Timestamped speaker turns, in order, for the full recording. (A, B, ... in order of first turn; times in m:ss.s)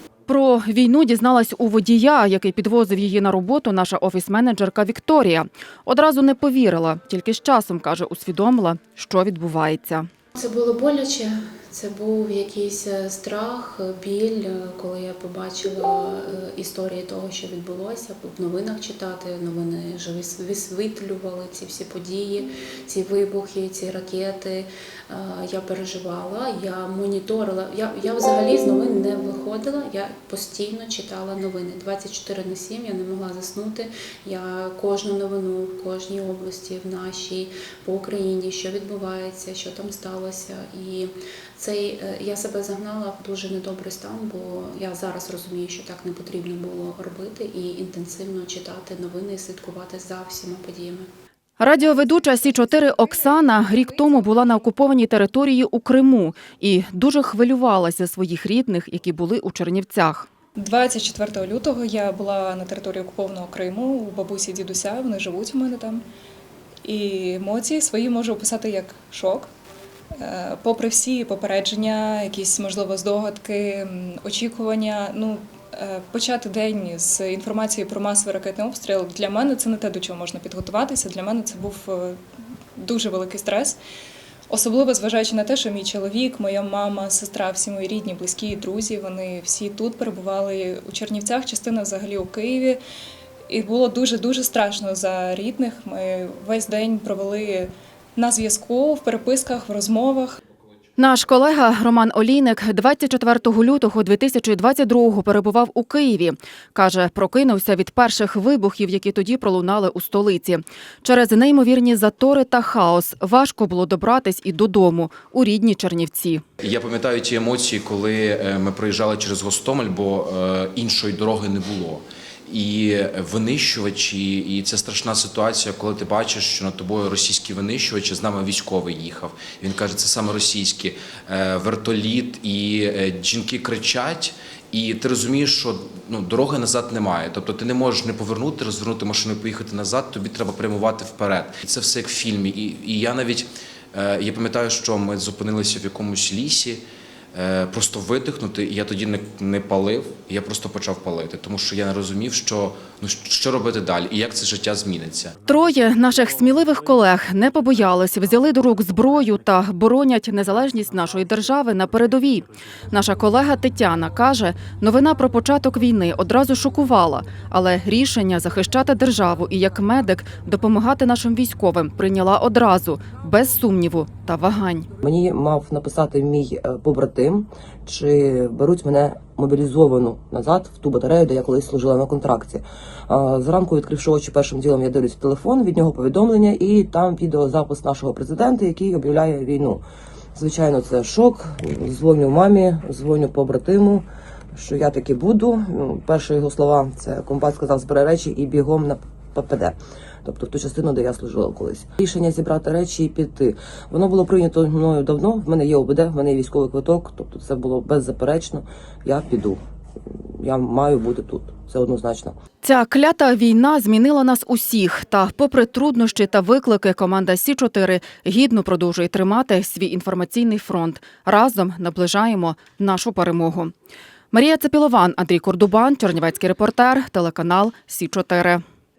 0:00.3-0:10.1 A
0:10.3-0:51.1 B
0:51.6-1:00.3 A
1:00.6-1:06.0 C
1:06.8-1:09.5 C
1:10.2-1:22.2 C
1:22.8-1:23.8 C
1:24.5-1:32.8 C
1:33.5-1:40.4 C
1:41.0-1:56.4 A
1:56.6-2:35.4 D
2:35.4-2:54.9 A
2:55.0-3:09.8 E
3:10.3-3:29.6 E
3:30.4-3:32.4 E
3:32.6-3:43.7 A
3:44.3-3:48.6 A